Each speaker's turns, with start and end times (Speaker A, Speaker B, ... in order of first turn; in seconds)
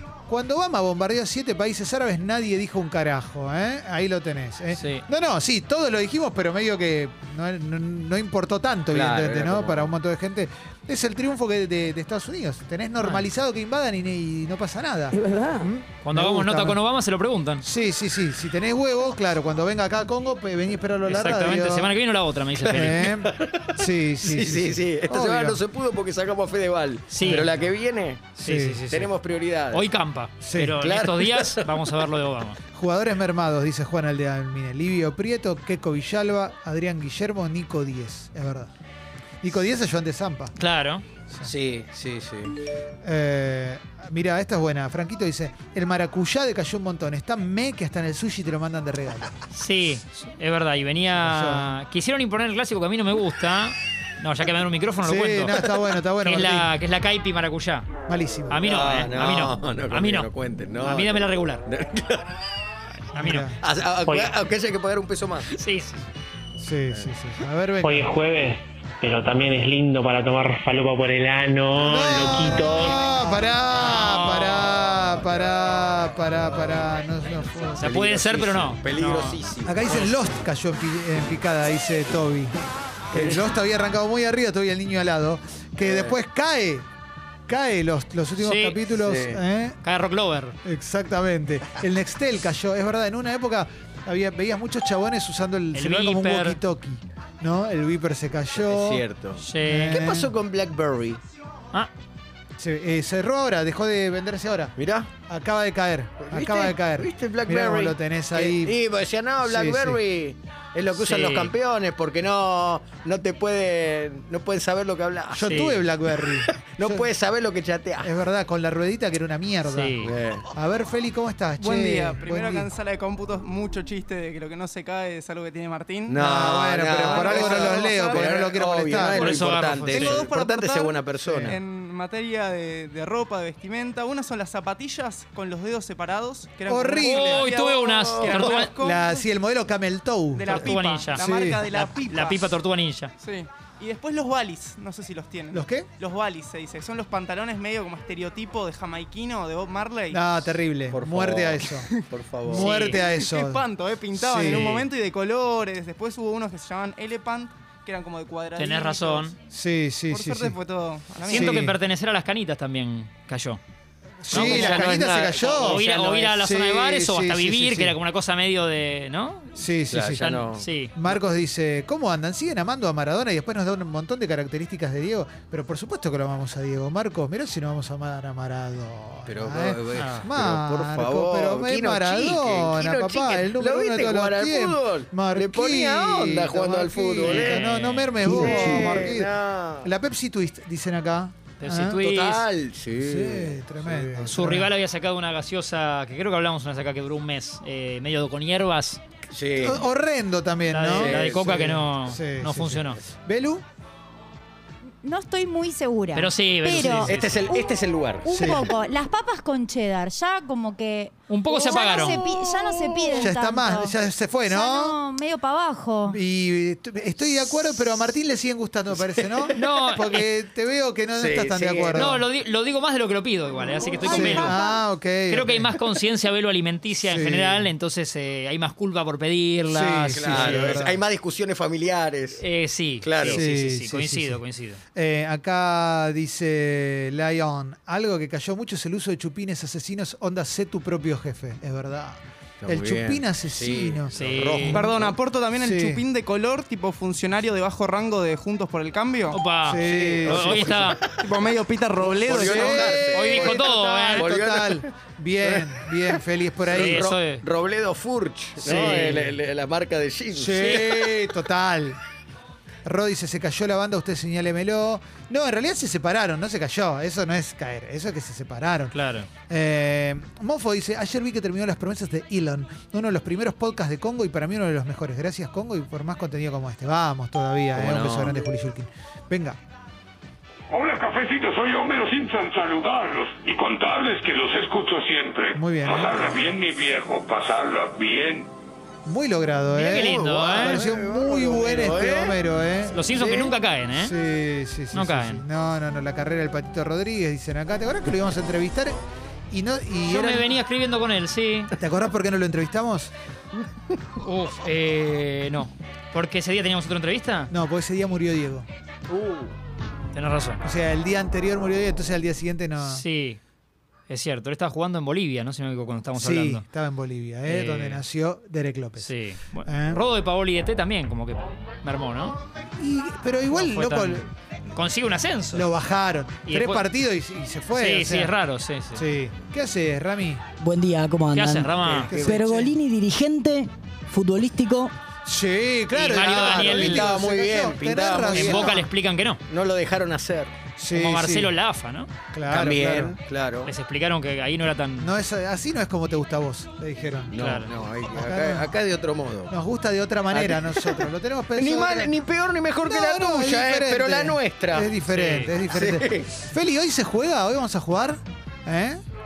Speaker A: 0.3-16.8, 17.6-21.9, 22.6-25.6, 27.2-27.5, 28.4-28.8, 30.4-30.8, 32.7-38.7, 39.4-40.5, 43.0-49.4, 51.1-51.8, 55.0-56.7, 58.1-58.6, 63.2-63.6, 66.6-68.2, 71.8-77.9, 79.7-82.5, 83.1-86.9, 87.5-89.8, 90.6-99.0, 99.6-100.3, 102.6-104.8, 105.3-108.8, 109.4-110.0, 115.3-117.1, 118.0-122.7, 126.2-129.4, 131.2-131.6, 136.7-137.5, 138.7-141.6, 145.5-145.9, 150.1-151.9, 152.5-154.7, 159.5-160.6, 161.2-161.8, 164.2-168.0, 169.6-192.0, 192.9-194.7, 199.6-203.6, 208.3-208.7, 213.1-215.0, 216.1-222.3, 224.0-225.8, 227.0-227.7, 229.7-231.0, 233.3-234.4, 234.9-244.9, 245.6-246.0, 249.6-250.8, 252.3-257.1, 258.6-259.1, 260.3-262.0, 262.8-269.0, 269.5-279.6, 285.5-286.7, 289.1-299.0, 299.5-300.5, 301.8-303.1, 307.5-308.7, 310.6-313.1, 316.1-319.1, 319.6-320.0, 322.8-324.3, 325.5-328.3, 328.9-330.4, 332.0-332.8, 335.2-338.9, 340.8-341.6, 342.3-343.2, 345.0-347.4, 348.1-348.8, 349.5-352.1, 352.8-359.0
Speaker B: 4.7-5.0, 13.0-13.3, 16.0-17.6, 21.1-23.2, 27.1-27.5, 28.4-29.1, 29.7-32.6, 40.6-41.0, 49.5-55.6, 56.2-57.9, 58.5-61.7, 63.1-63.5, 65.5-66.0, 73.8-74.8, 77.8-80.1, 88.4-88.8, 89.8-90.6, 95.7-96.6, 99.4-100.0, 110.9-111.5, 115.5-115.8, 119.7-120.1, 129.0-130.2, 137.0-138.7, 140.5-143.1, 152.5-153.0, 154.5-154.9, 158.6-159.3, 161.3-163.6, 164.3-169.6, 170.2-170.9, 179.9-180.3, 187.2-188.8, 191.6-192.5, 194.2-199.0, 200.7-203.0, 206.1-207.4, 211.3-212.2, 219.6-220.3, 221.9-224.6, 225.3-230.9, 232.4-234.8, 244.1-244.8, 249.3-251.0, 252.8-254.3, 256.7-257.4, 258.6-259.4, 260.6-261.1, 268.9-269.3, 289.7-290.8, 292.9-294.1, 294.9-295.4, 300.1-301.7, 304.2-307.5, 310.1-310.6, 312.8-313.4, 314.1-316.6, 317.5-318.1, 319.0-322.4, 323.5-325.7, 326.5-326.9, 327.7-329.0, 331.4-332.1, 335.9-337.1, 338.3-339.4, 340.9-342.1, 343.7-345.1, 347.3-347.7, 355.1-355.5
Speaker C: 8.9-9.9, 23.3-28.3, 28.9-29.9, 30.8-31.8, 41.4-42.5, 58.6-62.2, 63.6-65.5, 77.8-79.9, 83.1-83.4, 85.8-86.2, 89.0-89.4, 98.6-101.2, 104.8-105.1, 106.2-118.2, 120.0-120.5, 126.1-131.6, 137.5-138.6, 150.9-152.9, 164.5-166.3, 169.9-170.7, 179.3-187.7, 188.2-189.9, 192.0-194.3, 199.3-199.8, 200.9-201.6, 207.0-208.6, 212.3-213.2, 221.2-222.1, 230.1-232.4, 233.0-233.4, 242.6-245.2, 249.8-251.2, 252.0-254.8, 255.4-260.9, 277.7-278.4, 289.9-292.4, 309.1-309.6, 336.4-338.9, 339.5-340.5, 342.5-343.7, 347.3-349.5, 350.3-354.9, 355.7-356.4
Speaker D: 15.2-15.6, 330.6-334.9
Speaker E: 64.0-64.3, 67.8-73.0
Speaker F: 121.6-126.2, 127.0-128.4, 130.1-139.1, 140.3-142.6, 143.2-150.2, 152.6-159.3, 160.1-161.6, 164.3-164.7, 244.7-249.4, 251.0-253.1
Speaker G: 205.0-216.2, 223.8-224.6
Speaker H: 283.1-284.1, 284.6-288.4